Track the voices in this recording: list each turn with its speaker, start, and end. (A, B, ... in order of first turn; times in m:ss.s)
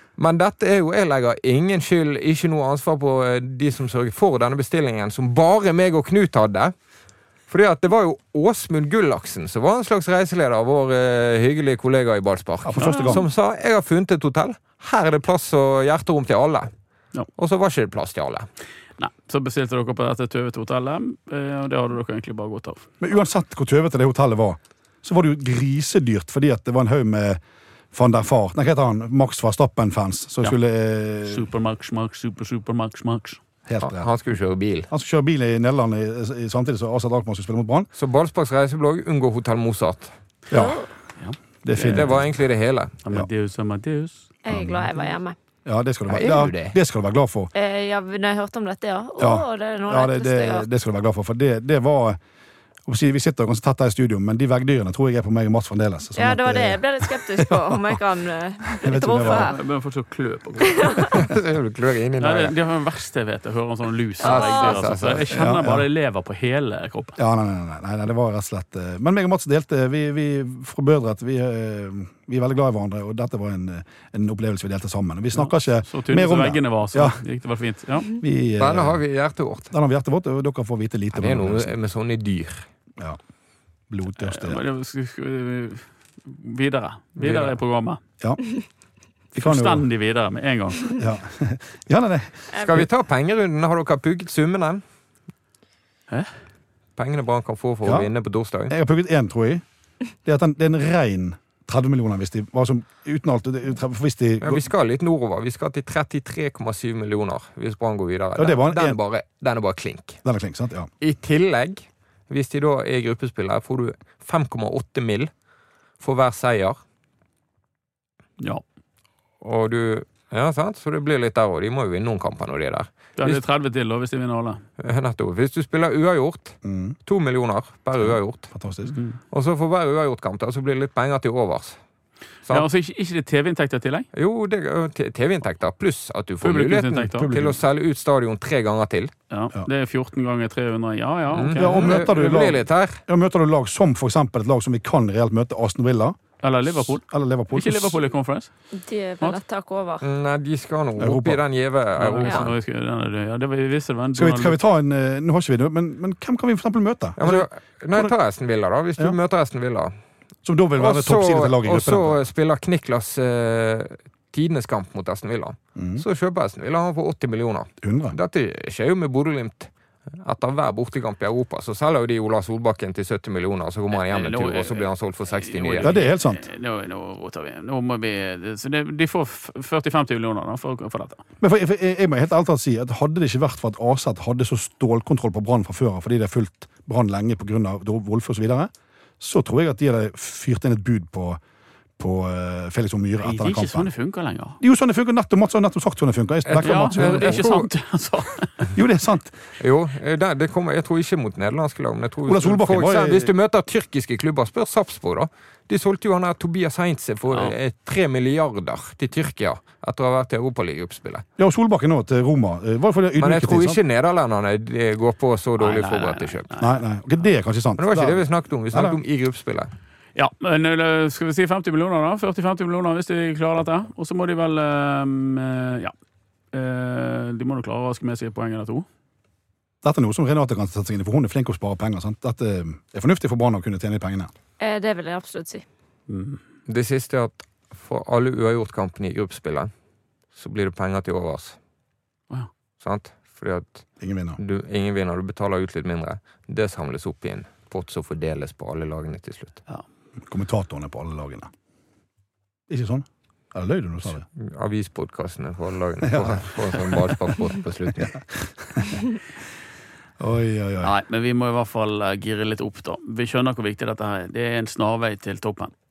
0:00.2-0:06.7 A
0:07.5-0:16.7 A
0:12.6-0:13.3 B
0:17.4-0:18.5 A
0:19.0-0:22.8 C
0:23.0-0:27.4 B
0:27.9-0:31.5 B
0:31.2-0:33.4 C
0:33.7-0:34.1 B
0:33.8-0:34.9 A
0:34.9-0:37.9 B
0:38.0-0:40.1 A
0:40.5-0:40.8 B
0:40.5-0:40.9 D
0:41.2-0:42.2 C
0:41.6-0:42.3 B
0:41.9-0:42.9 A
0:43.0-0:44.3 C
0:44.4-0:45.0 B
0:44.4-0:45.4 D
0:45.6-0:47.5 B
0:46.1-0:46.8 A
0:47.6-0:50.6 D
0:49.2-0:52.2 B
0:52.9-0:58.0 B
0:56.2-0:59.6 D
0:58.8-0:59.5 B
0:59.2-1:01.0 C
1:00.8-1:01.1 D
1:01.1-1:02.5 A
1:02.2-1:07.2 C
1:04.2-1:04.8 D
1:04.2-1:05.3 A
1:05.3-1:05.9 B
1:07.2-1:17.2 B
1:15.4-1:18.1 C
1:18.2-1:19.0 B
1:18.6-1:19.7 A
1:19.7-1:21.7 B
1:21.1-1:22.6 A
1:23.9-1:24.6 B
1:24.2-1:28.0 C
1:27.2-1:27.6 A
1:29.3-1:29.9 B
1:29.4-1:30.9 C
1:31.0-1:32.9 B
1:32.6-1:34.8 A
1:37.0-1:38.7 A
1:37.8-1:38.1 B
1:38.7-1:39.6 B
1:40.2-1:44.6 B
1:44.4-1:50.2 A
1:48.4-1:49.0 B
1:50.2-1:50.9 B
1:51.0-1:55.3 A
1:56.0-1:56.8 A
1:59.4-2:03.4 A
2:03.2-2:04.6 C
2:04.8-2:08.5 A
2:06.6-2:07.0 B
2:08.0-2:09.0 B
2:09.3-2:11.8 A
2:12.5-2:14.1 C
2:14.1-2:19.1 A
2:16.4-2:17.3 C
2:17.2-2:17.6 B
2:19.3-2:22.1 C
2:21.3-2:23.0 A
2:21.6-2:28.0 B
2:26.4-2:28.5 C
2:28.7-2:30.0 D
2:30.0-2:32.5 A
2:31.0-2:31.4 B
2:32.0-2:34.6 C
2:34.2-2:38.2 B
2:37.2-2:40.0 A
2:40.4-2:42.2 B
2:40.8-2:56.0 A
2:45.8-2:46.0 B
2:47.8-2:48.2 B
2:53.9-3:01.2 C
2:55.8-2:56.4 B
3:01.4-3:11.4 B
3:12.0-3:13.9 B
3:13.2-3:14.6 C
3:14.6-3:17.5 B
3:16.4-3:17.7 A
3:16.6-3:18.7 C
3:18.8-3:19.4 B
3:19.6-3:31.2 A
3:22.2-3:23.3 B
3:31.4-3:33.8 B
3:33.2-3:36.5 A
3:35.6-3:36.8 C
3:36.6-3:39.0 B
3:37.8-3:39.7 A
3:40.2-3:46.0 C
3:46.5-3:48.9 C
3:49.8-3:54.3 B
3:54.6-3:55.6 D
3:56.1-3:56.4 C
3:56.7-3:59.7 A
4:00.3-4:01.6 A
4:02.8-4:09.6 A
4:04.0-4:04.4 B
4:10.3-4:11.5 B
4:12.7-4:14.2 B
4:14.4-4:18.2 A
4:16.1-4:19.0 B
4:20.2-4:20.9 B
4:20.8-4:25.7 C